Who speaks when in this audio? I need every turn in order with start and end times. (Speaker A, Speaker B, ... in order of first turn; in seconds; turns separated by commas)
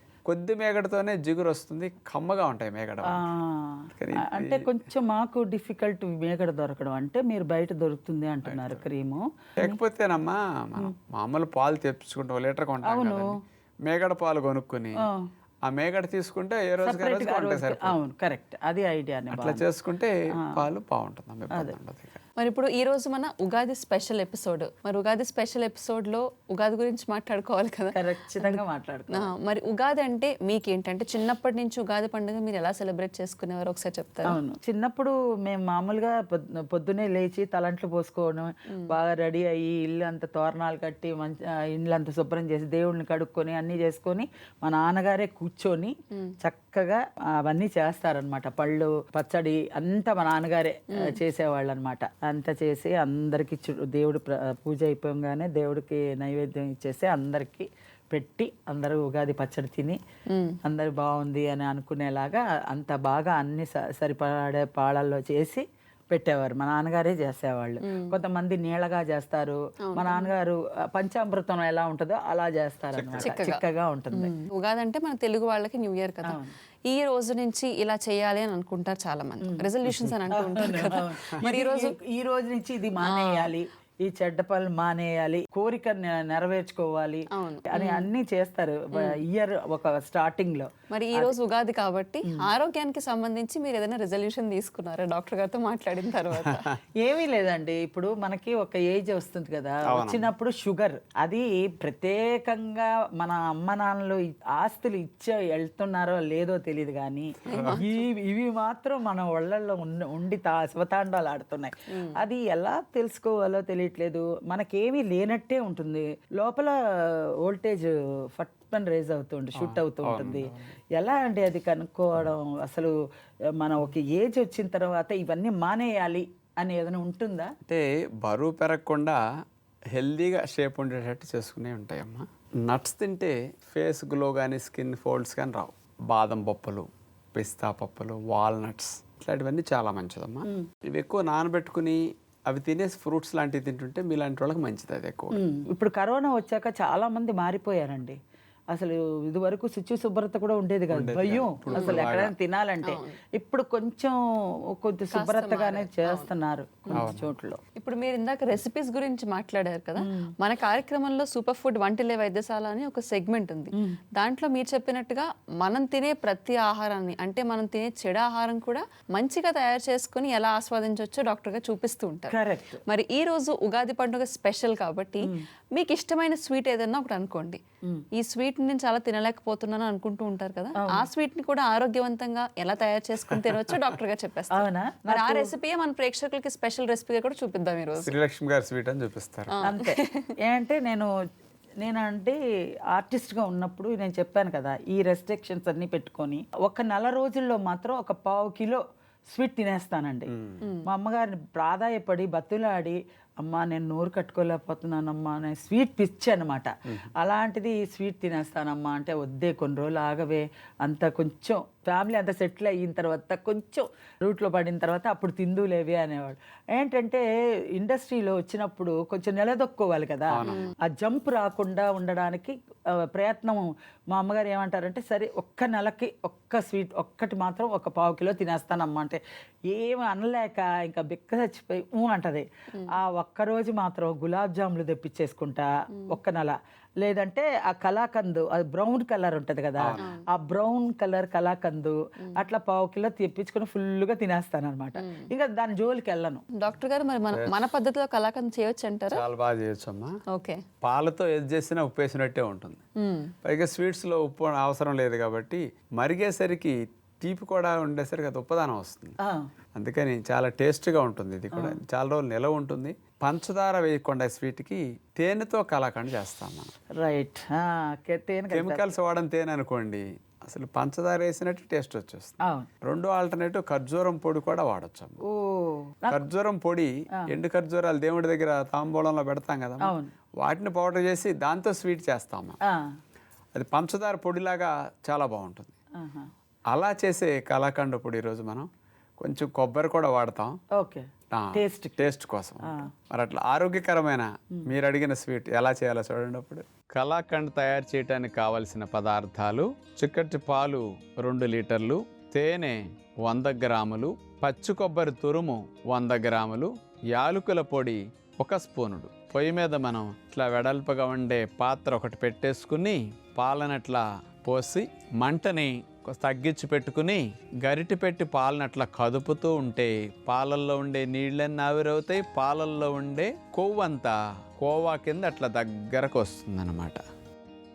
Speaker A: 0.3-3.2, Speaker B: 3.0-9.8, Speaker A: 4.0-4.7, Speaker A: 8.4-8.8, Speaker A: 9.6-13.3, Speaker B: 12.8-13.4, Speaker A: 13.8-15.0, Speaker B: 15.0-15.2, Speaker A: 15.7-18.0, Speaker B: 16.8-19.6, Speaker A: 19.3-22.2, Speaker B: 20.4-20.6, Speaker C: 22.4-34.4, Speaker B: 27.9-29.3, Speaker B: 34.2-60.0, Speaker C: 60.3-60.6, Speaker B: 60.6-74.3, Speaker C: 67.8-68.1, Speaker C: 69.9-70.3, Speaker A: 72.9-73.4, Speaker C: 73.2-73.6, Speaker C: 74.1-82.0, Speaker B: 76.2-76.5, Speaker A: 79.8-80.2, Speaker B: 80.3-91.3, Speaker C: 83.0-83.5, Speaker C: 87.3-88.1, Speaker C: 90.9-96.7, Speaker A: 96.3-96.8, Speaker B: 97.0-123.0, Speaker A: 99.9-100.3, Speaker A: 107.5-107.8, Speaker C: 107.5-108.1, Speaker A: 119.6-120.7, Speaker B: 123.6-127.5, Speaker A: 127.7-129.2, Speaker A: 129.9-145.4, Speaker B: 145.3-148.2, Speaker B: 148.7-154.2, Speaker A: 150.9-152.3, Speaker C: 151.7-152.1, Speaker C: 152.8-153.2, Speaker B: 154.7-157.6, Speaker C: 155.1-156.3, Speaker A: 156.9-157.3, Speaker C: 157.7-172.3, Speaker B: 160.0-160.3, Speaker B: 172.3-172.8, Speaker C: 172.9-177.6, Speaker C: 178.1-188.1, Speaker B: 180.8-181.1, Speaker A: 183.3-183.8, Speaker B: 184.5-185.5, Speaker A: 188.0-189.5, Speaker C: 189.5-190.3, Speaker B: 189.6-191.1, Speaker B: 191.8-192.4, Speaker B: 192.9-198.8, Speaker B: 199.3-217.2, Speaker A: 200.3-200.6, Speaker C: 200.6-200.9, Speaker B: 217.8-246.4, Speaker A: 220.3-220.7, Speaker C: 220.4-220.7, Speaker A: 239.8-240.1, Speaker C: 240.0-240.2, Speaker C: 245.0-245.3, Speaker C: 246.5-249.2, Speaker A: 247.3-247.6, Speaker A: 249.1-250.1, Speaker C: 250.3-250.6, Speaker A: 250.8-252.8, Speaker C: 253.0-253.3, Speaker A: 253.4-259.2, Speaker B: 259.2-259.5, Speaker A: 259.7-266.7, Speaker B: 261.5-261.8, Speaker B: 267.0-268.9, Speaker A: 268.5-275.2, Speaker B: 272.4-272.7, Speaker B: 275.2-276.2, Speaker A: 276.1-282.6, Speaker B: 279.8-280.1, Speaker A: 283.5-285.7, Speaker B: 286.0-286.3, Speaker A: 286.7-288.7, Speaker A: 289.2-290.6, Speaker B: 290.8-292.1, Speaker A: 291.3-327.0, Speaker B: 292.6-292.9